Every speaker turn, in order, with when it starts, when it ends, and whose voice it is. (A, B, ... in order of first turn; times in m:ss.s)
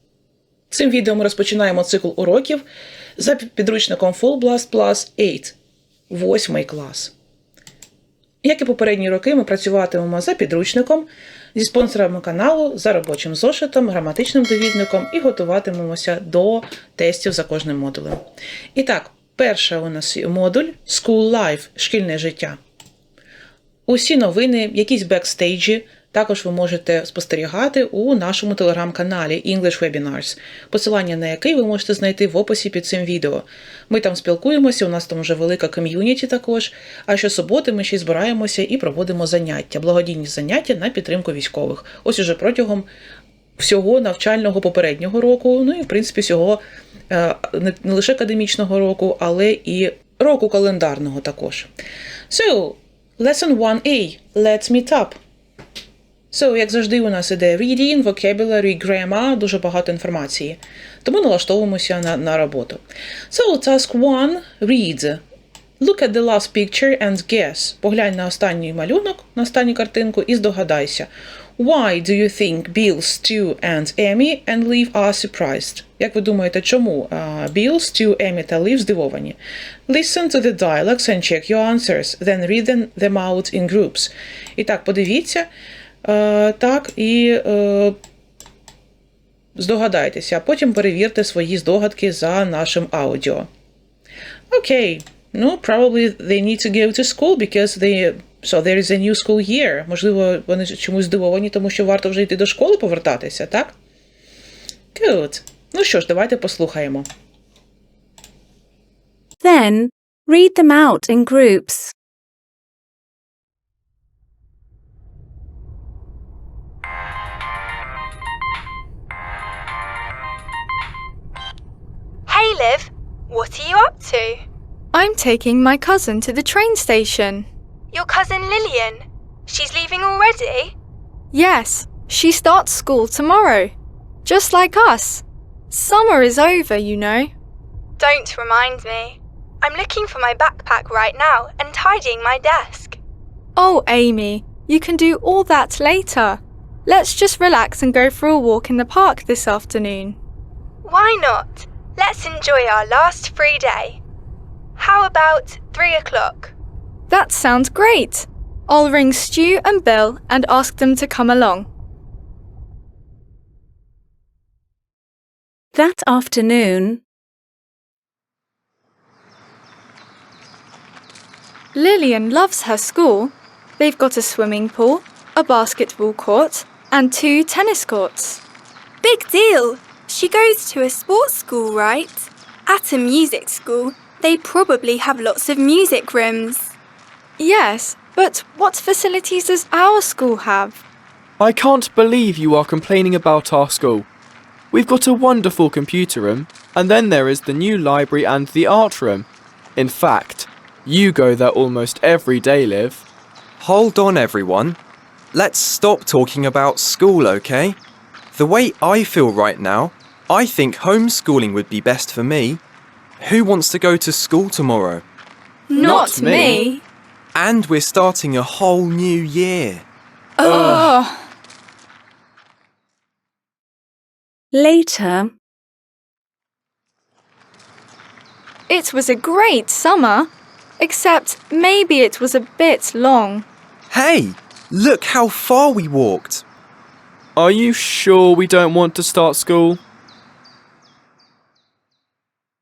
0:00.7-0:02.6 A
0:03.2-0:05.6 A
0:06.1-0:07.1 A
0:08.4-0:18.2 A
0:18.8-0:22.6 A
0:23.9-0:42.9 A
0:43.6-0:51.7 A
0:52.3-0:55.2 A
0:56.3-1:05.2 A
1:05.8-1:19.4 A
1:19.9-1:25.5 A
1:26.0-1:28.0 A
1:29.6-1:33.5 A
1:34.5-1:43.7 A
1:44.9-1:47.1 A
1:49.4-1:51.9 B
2:02.3-2:04.4 C
2:04.9-2:07.5 D
2:07.9-2:10.7 C
2:11.3-2:13.7 D
2:14.2-2:17.3 D
2:18.0-2:23.0 C
2:23.6-2:30.2 D
2:30.8-2:34.0 C
2:34.8-2:36.5 C
2:37.1-2:41.7 D
2:45.7-2:47.0 B
2:51.7-2:58.4 D
2:59.0-3:06.7 C
3:07.4-3:10.8 D
3:11.4-3:14.1 E
3:14.7-3:23.0 E
3:23.6-3:24.8 F
3:25.3-3:27.8 F
3:28.3-3:32.6 F
3:33.2-3:35.0 F
3:35.7-3:36.8 C
3:35.8-3:36.5 E
3:35.9-3:36.8 D
3:37.3-3:39.8 F
3:40.4-3:41.2 D
3:40.4-3:40.8 F
3:44.5-3:45.3 B
3:48.7-3:53.4 D
3:53.9-3:56.4 F
3:57.4-3:59.8 E